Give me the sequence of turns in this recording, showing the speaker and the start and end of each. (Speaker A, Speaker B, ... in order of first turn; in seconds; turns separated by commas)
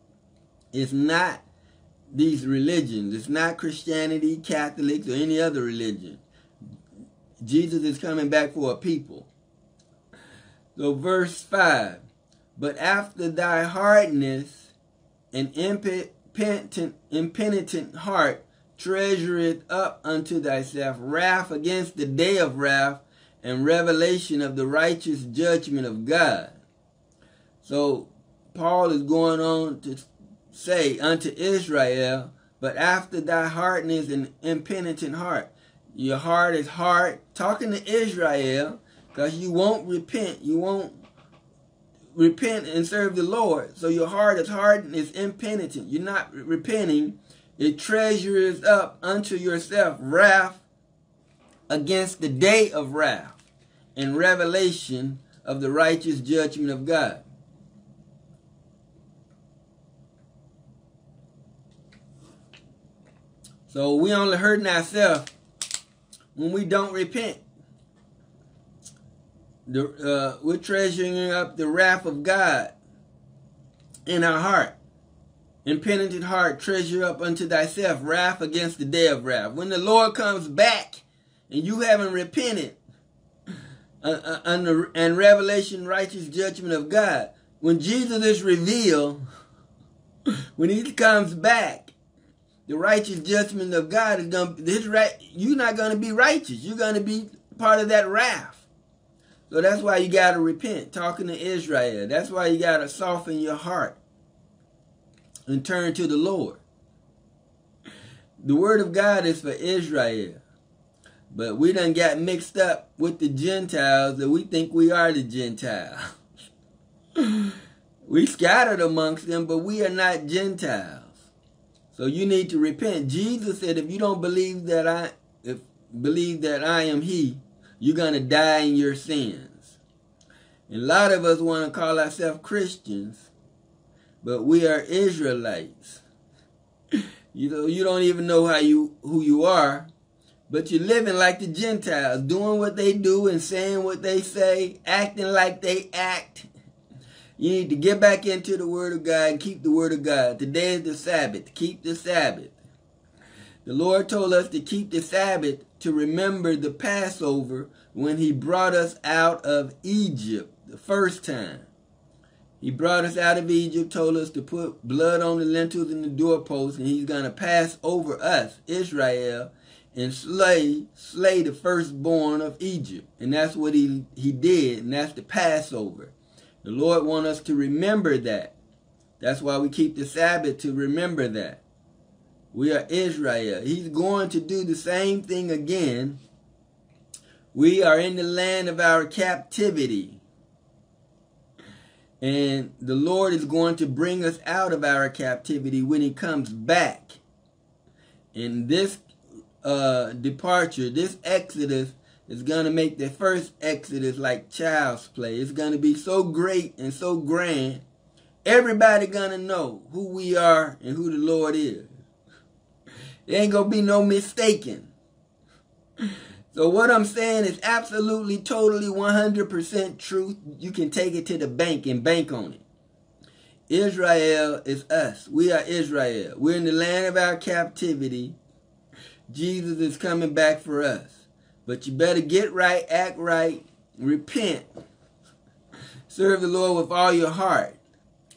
Speaker A: 0.7-1.4, Speaker A: 2.1-6.2, Speaker A: 7.4-9.3, Speaker A: 10.8-12.0, Speaker A: 12.6-14.7, Speaker A: 15.3-26.6, Speaker A: 27.6-41.0, Speaker A: 42.1-50.6, Speaker A: 51.7-53.4, Speaker A: 54.0-57.2, Speaker A: 63.7-65.3, Speaker A: 66.3-67.4, Speaker A: 69.7-72.7, Speaker A: 74.1-74.8, Speaker A: 75.7-82.8, Speaker A: 84.0-89.2, Speaker A: 90.6-91.9, Speaker A: 92.7-98.7, Speaker A: 99.5-104.0, Speaker A: 105.5-106.6, Speaker A: 108.4-110.4, Speaker A: 111.3-116.0, Speaker A: 118.1-121.2, Speaker A: 121.9-129.8, Speaker A: 130.7-133.3, Speaker A: 134.2-136.0, Speaker A: 137.3-139.9, Speaker A: 140.5-146.5, Speaker A: 147.4-152.6, Speaker A: 153.7-161.7, Speaker A: 162.6-178.5, Speaker A: 179.2-181.6, Speaker A: 182.5-186.2, Speaker A: 187.5-190.2, Speaker A: 192.2-197.2, Speaker A: 198.3-199.0, Speaker A: 199.6-207.8, Speaker A: 208.4-211.9, Speaker A: 213.3-214.9, Speaker A: 216.5-222.6, Speaker A: 223.7-228.4, Speaker A: 229.3-234.7, Speaker A: 236.1-237.8